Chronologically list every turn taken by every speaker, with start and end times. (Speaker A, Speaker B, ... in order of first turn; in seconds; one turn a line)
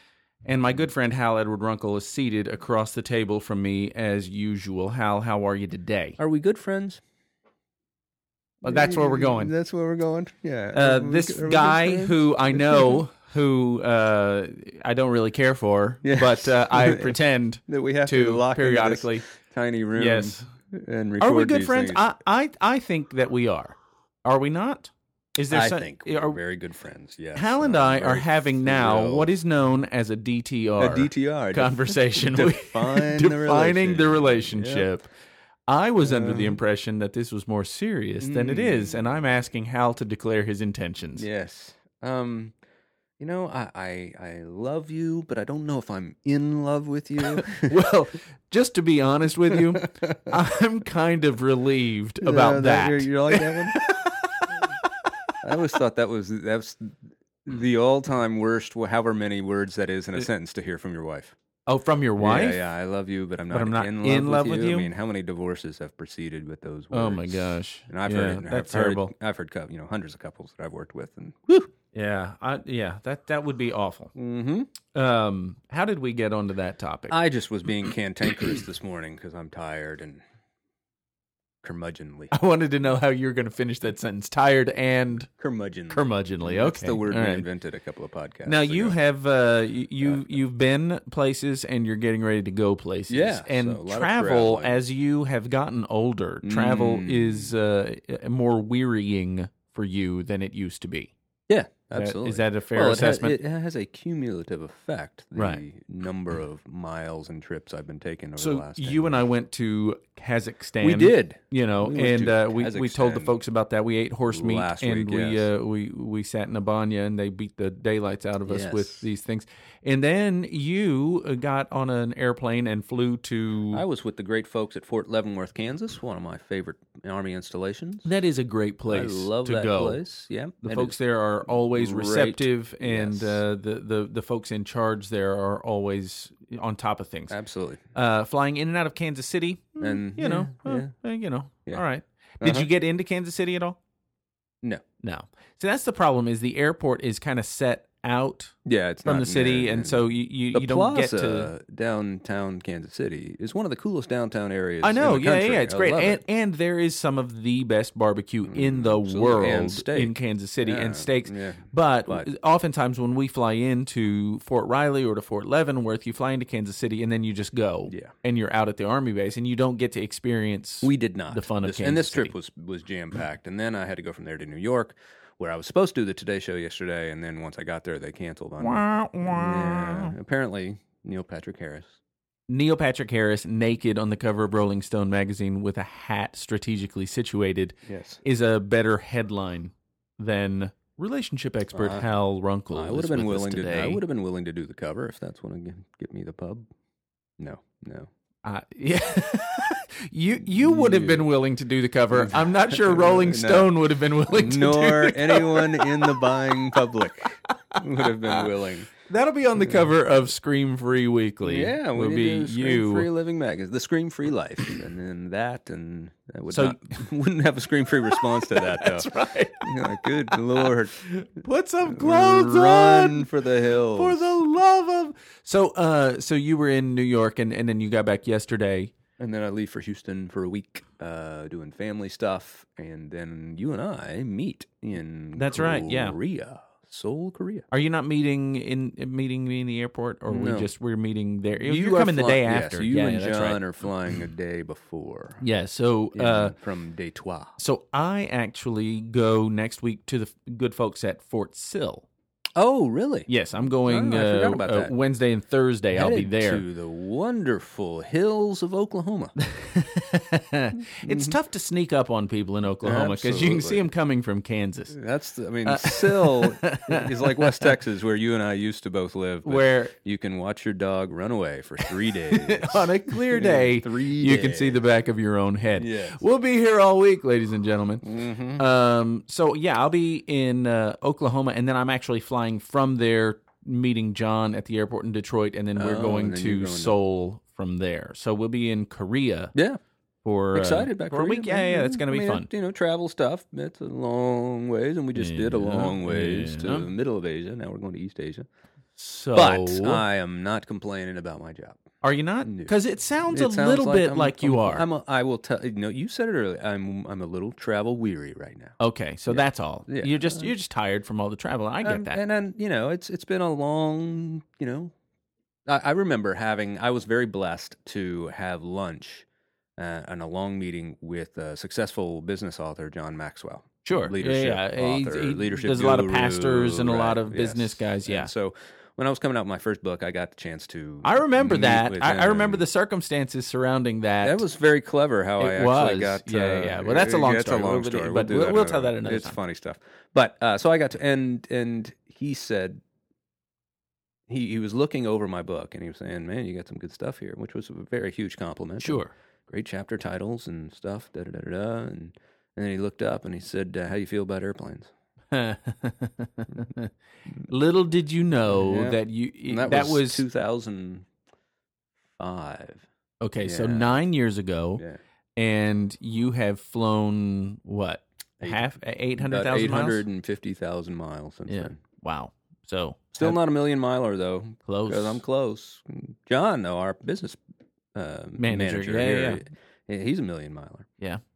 Speaker A: 0.4-6.2
Speaker B: 6.2-7.0
Speaker B: 8.6-13.0
Speaker A: 8.6-9.5
Speaker A: 10.7-19.2
Speaker B: 16.0-17.1
Speaker B: 17.7-22.0
Speaker A: 19.9-20.5
Speaker A: 21.2-26.4
Speaker B: 25.5-29.3
Speaker A: 27.3-35.1
Speaker B: 30.8-34.9
Speaker A: 35.7-41.2
Speaker B: 36.0-36.6
Speaker B: 38.2-39.0
Speaker B: 41.1-42.5
Speaker B: 43.2-47.8
Speaker A: 47.2-54.7
Speaker B: 49.5-50.3
Speaker B: 52.2-53.8
Speaker B: 55.4-61.3
Speaker A: 61.7-62.6
Speaker B: 62.2-71.7
Speaker A: 63.5-64.9
Speaker A: 66.9-69.1
Speaker A: 71.9-74.1
Speaker B: 74.1-74.7
Speaker A: 74.9-77.2
Speaker B: 77.1-80.2
Speaker B: 81.6-82.3
Speaker A: 82.3-85.3
Speaker B: 85.4-89.0
Speaker A: 85.9-87.4
Speaker A: 88.5-101.1
Speaker B: 93.1-94.8
Speaker B: 96.4-97.5
Speaker B: 101.5-109.2
Speaker A: 101.9-103.4
Speaker A: 105.3-105.6
Speaker A: 108.4-123.8
Speaker B: 110.8-113.3
Speaker B: 114.3-115.5
Speaker B: 118.5-119.1
Speaker B: 123.7-128.1
Speaker A: 128.0-130.0
Speaker B: 128.9-133.4
Speaker A: 130.6-137.4
Speaker B: 137.3-137.8
Speaker A: 137.9-143.8
Speaker B: 139.8-140.9
Speaker B: 142.4-142.7
Speaker A: 145.0-151.5
Speaker B: 148.6-156.2
Speaker A: 154.8-172.3
Speaker B: 158.5-162.3
Speaker B: 170.8-181.9
Speaker A: 178.6-180.1
Speaker A: 182.5-194.0
Speaker B: 187.9-188.2
Speaker B: 191.7-192.1
Speaker B: 192.7-196.6
Speaker B: 197.4-198.1
Speaker A: 198.4-206.9
Speaker B: 200.5-201.3
Speaker B: 202.1-203.8
Speaker B: 204.3-208.9
Speaker A: 207.5-208.5
Speaker A: 209.0-213.1
Speaker B: 209.6-209.9
Speaker B: 211.4-221.0
Speaker A: 216.5-217.0
Speaker A: 218.2-223.3
Speaker B: 221.8-224.4
Speaker A: 223.9-228.9
Speaker B: 229.2-237.7
Speaker A: 235.3-236.2
Speaker A: 237.7-243.6
Speaker B: 240.3-240.7
Speaker B: 241.6-245.4
Speaker A: 245.4-246.5
Speaker B: 246.1-247.5
Speaker A: 247.6-252.1
Speaker B: 252.6-253.3
Speaker A: 253.3-256.6
Speaker B: 253.8-254.9
Speaker B: 255.9-259.3
Speaker A: 259.4-264.9
Speaker B: 261.0-261.4
Speaker B: 262.8-263.8
Speaker B: 264.9-274.8
Speaker A: 265.6-267.7
Speaker A: 269.4-269.9
Speaker A: 271.9-278.0
Speaker B: 275.8-276.2
Speaker B: 278.0-278.6
Speaker A: 278.6-289.5
Speaker B: 285.8-286.9
Speaker A: 290.2-292.5
Speaker B: 290.5-298.4
Speaker A: 295.1-296.9
Speaker A: 298.9-300.0
Speaker B: 299.3-301.8
Speaker A: 302.0-304.9
Speaker B: 302.4-308.8
Speaker A: 308.8-312.2
Speaker B: 309.3-310.5
Speaker B: 311.8-314.9
Speaker B: 315.7-319.2
Speaker B: 319.8-332.6
Speaker A: 323.8-328.3
Speaker A: 331.0-334.4
Speaker B: 334.2-342.8
Speaker A: 335.4-339.4
Speaker B: 344.3-354.9
Speaker A: 348.8-349.1
Speaker A: 355.3-356.9
Speaker A: 357.5-360.2
Speaker B: 358.5-361.1
Speaker B: 362.2-362.9
Speaker A: 363.2-364.8
Speaker B: 363.4-364.0
Speaker A: 365.4-370.0
Speaker B: 369.2-371.8
Speaker A: 371.5-373.4
Speaker B: 373.1-377.4
Speaker A: 374.6-375.2
Speaker B: 377.9-380.9
Speaker A: 378.4-379.4